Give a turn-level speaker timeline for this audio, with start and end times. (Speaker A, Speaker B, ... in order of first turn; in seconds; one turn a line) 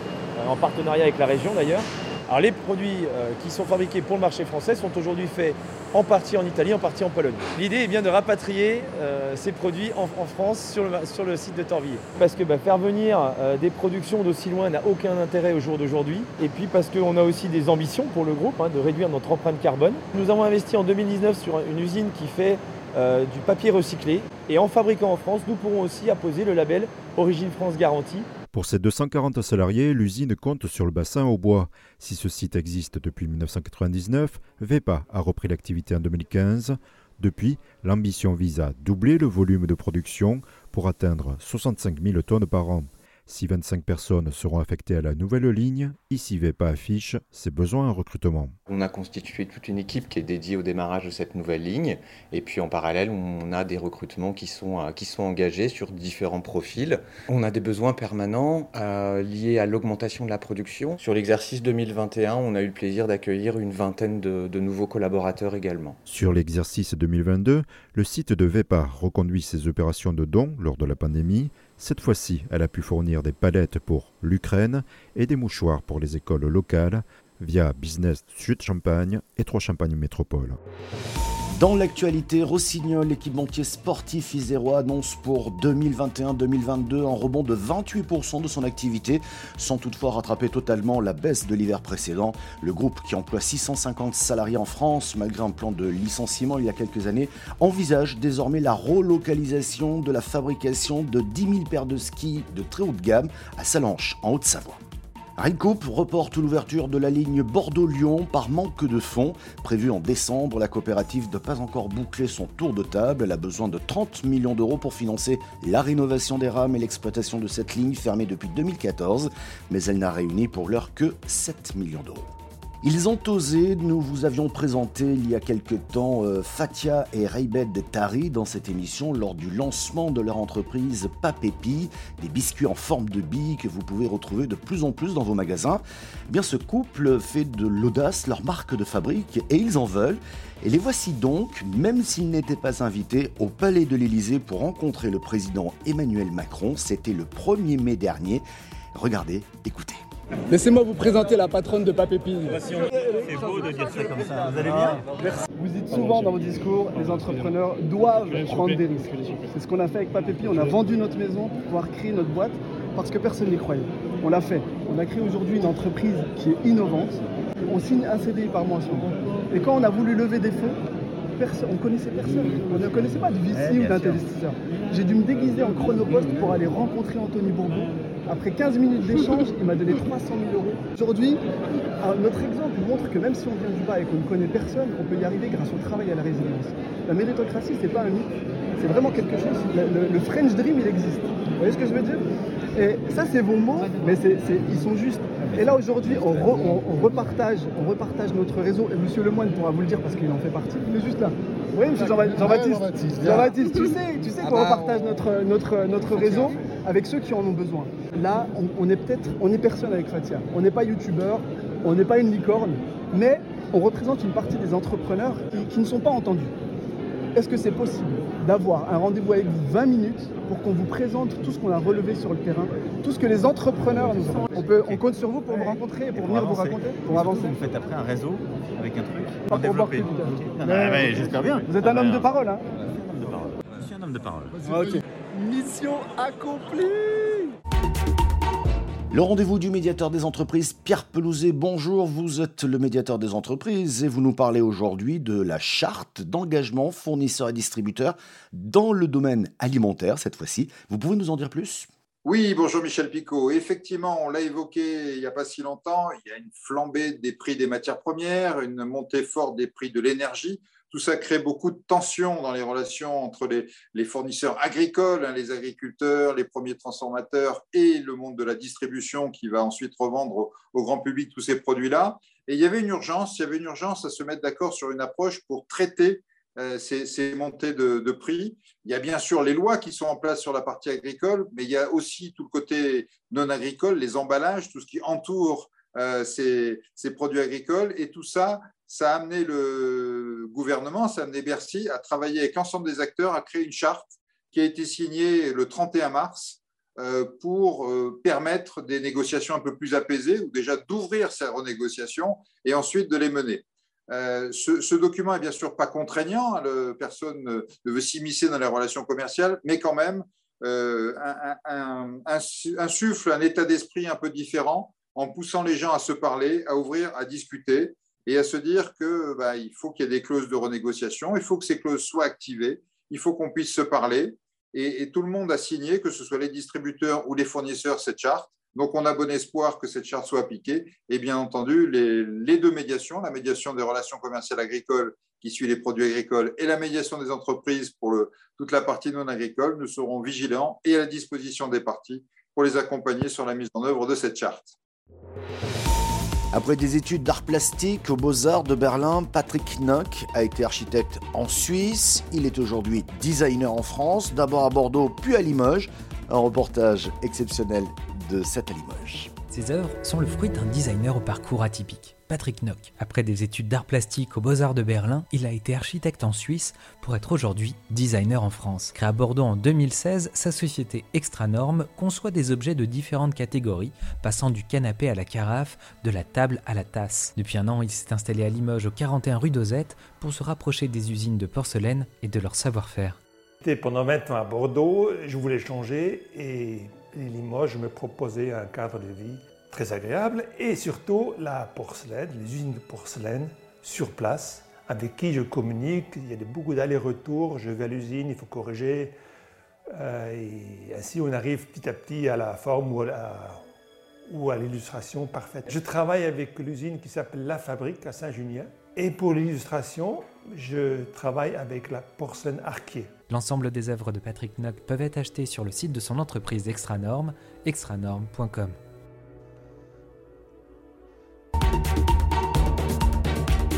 Speaker A: 0.4-28.3
Speaker B: 28.5-48.5
Speaker C: 48.7-66.0
Speaker B: 66.1-80.6
Speaker D: 81.5-104.8
Speaker D: 105.4-122.2
Speaker D: 122.8-150.0
Speaker E: 150.5-152.6
Speaker E: 154.6-170.8
Speaker E: 171.4-181.4
Speaker F: 173.7-174.1
Speaker E: 182.0-192.2
Speaker E: 192.8-216.5
Speaker E: 217.3-227.6
Speaker F: 226.1-232.3
Speaker E: 229.5-232.6
Speaker F: 232.9-234.6
Speaker E: 234.6-237.5
Speaker D: 239.1-251.9
Speaker G: 252.2-344.7
Speaker D: 346.5-359.3
Speaker H: 359.5-383.2
Speaker I: 383.6-399.1
Speaker I: 399.9-403.6
Speaker I: 404.3-413.2
Speaker H: 413.3-418.8